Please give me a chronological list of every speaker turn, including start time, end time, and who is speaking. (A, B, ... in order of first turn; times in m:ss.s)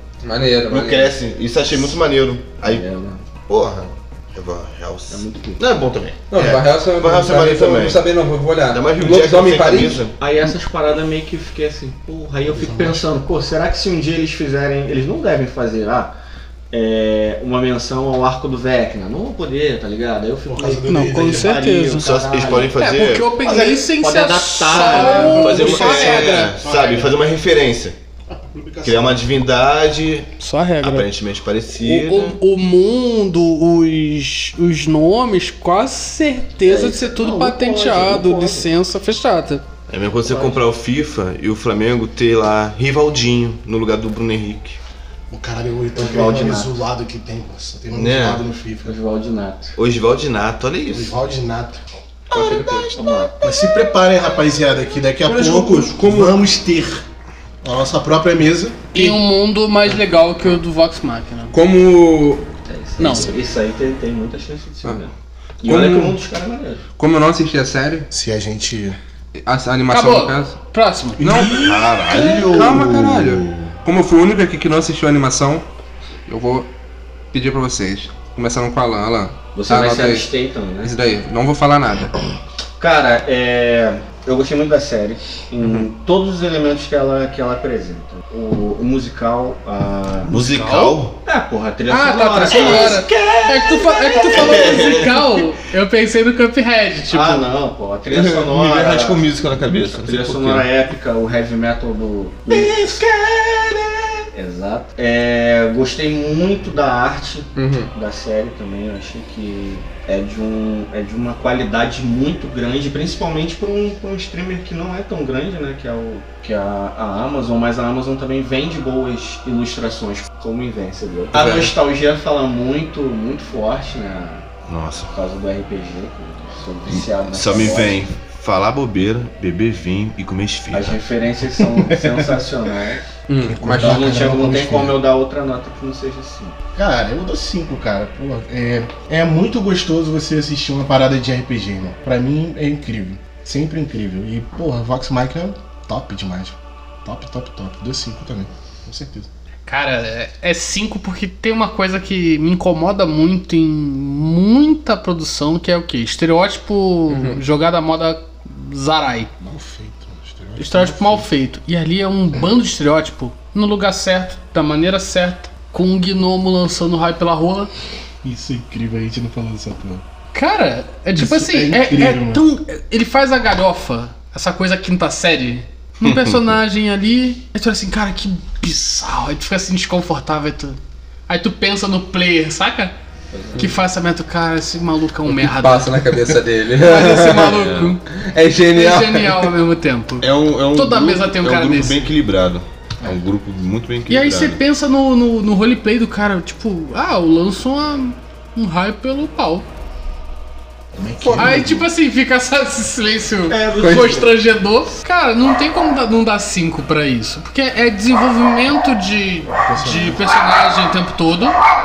0:00.2-0:01.1 A
0:00.7-0:02.8 B
0:02.6-0:03.3 C
0:03.4-0:06.2 B
0:05.1-0:05.6 C
0:06.3-0:10.0 A
0:06.3-0:06.6 D
0:06.9-0:08.0 B
0:08.7-0:10.1 B
0:10.2-0:16.1 C
0:12.5-0:13.0 D
0:16.7-0:22.8 C
0:20.5-0:21.6 D
0:20.9-0:22.1 E
0:21.9-0:23.3 B
0:22.7-0:26.6 E
0:23.4-0:26.2 C
0:24.7-0:27.1 D
0:25.2-0:28.0 B
0:28.3-0:29.3 D
0:28.8-0:30.3 B
0:30.4-0:31.1 E
0:30.8-0:32.4 B
0:31.7-0:39.6 E
0:36.6-0:38.7 C
0:39.9-0:44.8 B
0:40.2-0:40.6 C
0:45.3-0:48.9 D
0:46.0-0:46.8 C
0:47.9-0:48.4 B
0:48.8-0:49.8 C
0:49.8-0:51.1 B
0:50.9-0:51.8 D
0:52.3-0:53.0 A
0:52.3-0:53.0 B
0:53.0-0:53.3 C
0:53.4-0:57.0 D
0:55.2-0:56.4 A
0:57.6-0:58.8 D
0:58.9-1:01.5 E
1:01.5-1:02.4 A
1:02.7-1:06.8 C
1:03.0-1:03.3 E
1:05.6-1:06.2 A
1:07.0-1:08.1 A
1:08.1-1:09.0 D
1:09.3-1:10.6 A
1:09.9-1:11.2 E
1:11.2-1:15.6 A
1:11.2-1:13.7 B
1:16.3-1:16.7 A
1:17.3-1:20.3 A
1:19.6-1:20.9 C
1:20.8-1:22.2 A
1:22.8-1:30.5 C
1:25.6-1:25.9 A
1:30.3-1:31.2 B
1:30.3-1:31.0 E
1:31.2-1:34.8 C
1:31.9-1:37.5 E
1:32.5-1:33.0 B
1:34.3-1:35.5 B
1:37.1-1:39.3 C
1:38.1-1:40.7 B
1:39.9-1:43.0 C
1:42.5-1:44.2 D
1:44.3-2:04.5 C
1:47.6-1:47.9 A
2:01.3-2:01.7 A
2:04.6-2:05.1 B
2:05.1-2:08.1 C
2:06.9-2:11.0 B
2:10.7-2:13.0 C
2:11.6-2:12.6 D
2:13.3-2:14.2 A
2:13.4-2:15.0 D
2:13.8-2:16.6 C
2:16.7-2:29.3 D
2:29.7-2:39.3 E
2:37.1-2:37.4 A
2:39.4-2:41.3 D
2:40.6-2:47.7 E
2:48.2-2:50.0 D
2:50.3-3:02.9 E
2:51.1-2:52.4 D
2:56.0-2:56.4 B
3:03.3-3:03.7 C
3:03.6-3:06.3 E
3:05.3-3:09.5 A
3:06.8-3:08.0 E
3:07.5-3:08.0 B
3:08.7-3:12.0 E
3:10.2-3:14.6 B
3:14.1-3:19.6 E
3:20.9-3:21.7 D
3:21.2-3:21.8 A
3:21.4-3:31.6 E
3:23.5-3:24.4 C
3:29.5-3:30.2 D